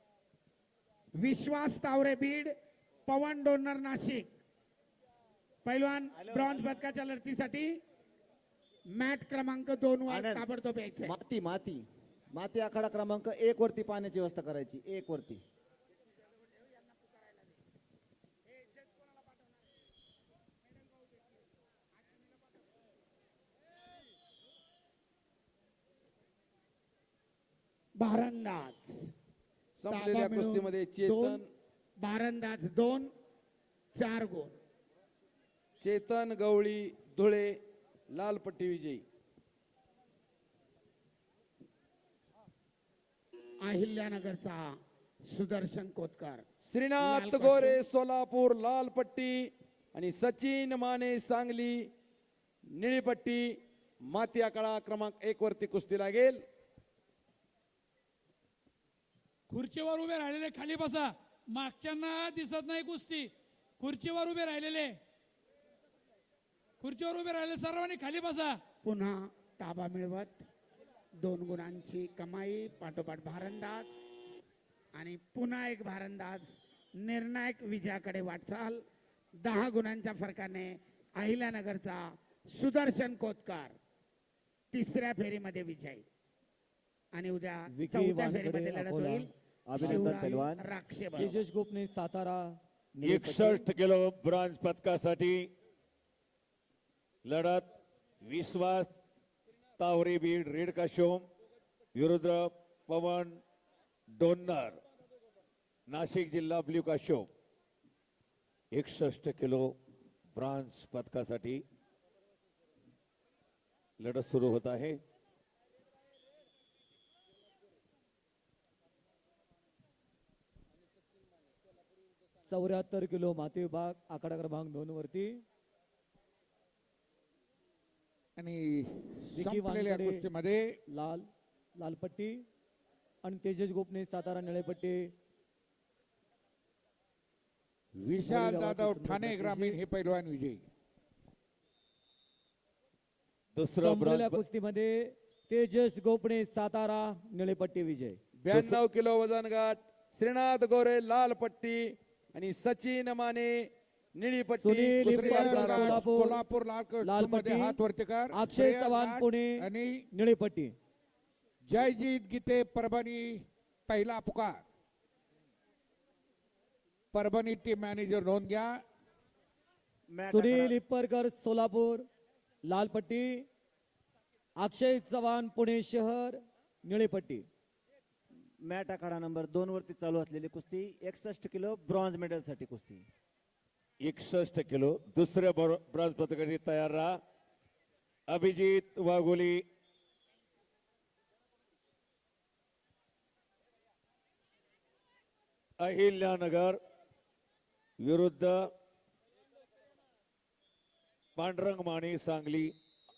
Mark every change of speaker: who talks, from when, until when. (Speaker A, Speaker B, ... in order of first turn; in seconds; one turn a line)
Speaker A: 1.2-2.5
Speaker A: 3.1-4.3
Speaker A: 5.6-7.8
Speaker A: 8.9-11.2
Speaker B: 10.1-10.4
Speaker B: 11.1-11.8
Speaker B: 12.3-15.4
Speaker A: 27.9-29.1
Speaker C: 29.8-31.5
Speaker A: 29.9-31.4
Speaker A: 32.0-33.1
Speaker A: 33.9-34.5
Speaker C: 35.8-37.6
Speaker C: 38.1-39.0
Speaker A: 43.6-44.7
Speaker A: 45.3-46.5
Speaker C: 46.6-51.9
Speaker A: 47.0-47.8
Speaker C: 52.7-53.5
Speaker C: 54.1-56.4
Speaker D: 59.5-65.0
Speaker D: 66.8-68.6
Speaker A: 68.8-70.4
Speaker A: 71.2-73.9
Speaker A: 75.0-78.8
Speaker A: 79.4-82.0
Speaker A: 82.5-83.8
Speaker A: 84.7-86.0
Speaker A: 87.1-91.4
Speaker E: 87.7-90.5
Speaker B: 89.7-90.6
Speaker E: 91.1-93.6
Speaker F: 93.0-95.5
Speaker F: 97.2-97.7
Speaker F: 98.2-98.9
Speaker F: 99.8-101.2
Speaker F: 101.9-103.4
Speaker F: 104.2-104.8
Speaker F: 105.9-107.3
Speaker F: 108.7-109.7
Speaker F: 110.3-111.6
Speaker F: 114.0-115.0
Speaker E: 122.5-125.4
Speaker G: 128.3-130.8
Speaker E: 129.3-130.2
Speaker E: 130.9-132.4
Speaker E: 133.2-135.1
Speaker G: 137.9-140.6
Speaker E: 138.2-139.8
Speaker F: 143.5-144.4
Speaker E: 143.7-148.2
Speaker C: 148.4-153.7
Speaker F: 148.5-148.8
Speaker C: 154.2-155.9
Speaker E: 154.5-156.4
Speaker G: 155.0-160.1
Speaker E: 157.0-157.8
Speaker E: 158.3-160.7
Speaker G: 161.6-164.6
Speaker G: 167.1-168.8
Speaker B: 170.1-170.8
Speaker E: 170.2-172.1
Speaker E: 172.6-173.5
Speaker E: 174.6-177.5
Speaker B: 178.6-183.1
Speaker F: 184.0-187.1
Speaker F: 188.3-189.6
Speaker F: 195.8-196.8
Speaker F: 198.0-198.6
Speaker F: 201.3-202.7